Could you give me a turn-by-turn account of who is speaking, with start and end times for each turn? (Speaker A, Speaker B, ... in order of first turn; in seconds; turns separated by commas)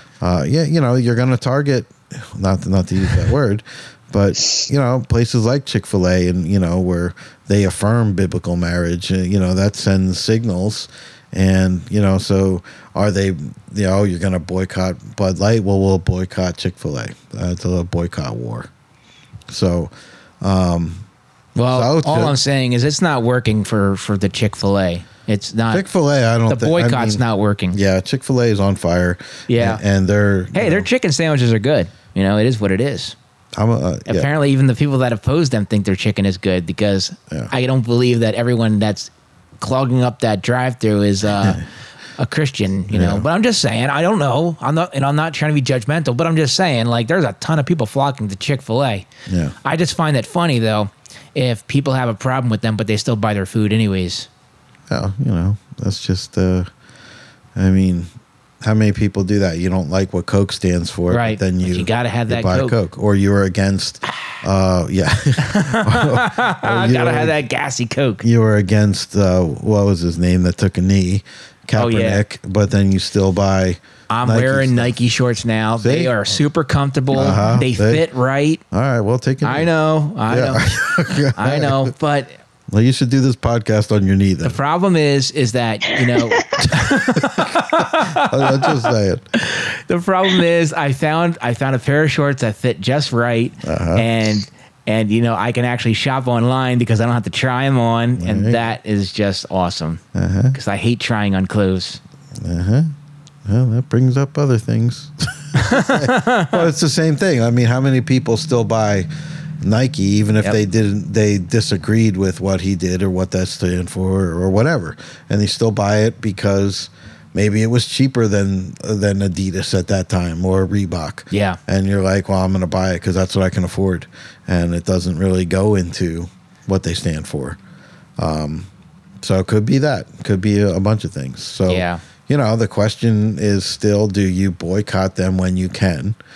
Speaker A: 0.2-18.7, Speaker A: 19.5-21.0, Speaker B: 21.6-25.8, Speaker A: 21.7-22.4, Speaker A: 25.7-30.9, Speaker B: 26.5-27.8, Speaker B: 29.5-29.8, Speaker B: 30.5-33.1, Speaker A: 33.5-34.3, Speaker B: 34.1-41.6, Speaker A: 41.4-41.6, Speaker B: 42.2-49.1, Speaker A: 42.9-43.3, Speaker A: 49.3-49.5, Speaker B: 49.6-54.3, Speaker A: 54.9-56.7, Speaker A: 57.6-58.1, Speaker A: 58.6-67.4, Speaker B: 61.1-62.8, Speaker B: 65.4-68.2, Speaker A: 68.2-75.0, Speaker B: 71.8-72.2, Speaker B: 74.1-78.6, Speaker A: 75.8-76.3, Speaker A: 77.1-78.1, Speaker A: 78.7-79.7, Speaker B: 79.4-80.7, Speaker A: 80.3-81.9, Speaker B: 81.3-82.3, Speaker A: 82.7-84.6, Speaker B: 84.4-88.8, Speaker A: 86.7-89.2, Speaker B: 89.4-100.0, Speaker A: 93.6-94.1, Speaker A: 98.2-98.6, Speaker A: 100.1-100.6, Speaker B: 100.5-102.0, Speaker A: 102.4-102.9, Speaker A: 103.5-109.1, Speaker B: 105.6-106.6, Speaker A: 109.6-127.6, Speaker B: 121.3-121.6, Speaker A: 128.2-128.7, Speaker A: 129.2-136.2, Speaker B: 131.7-132.0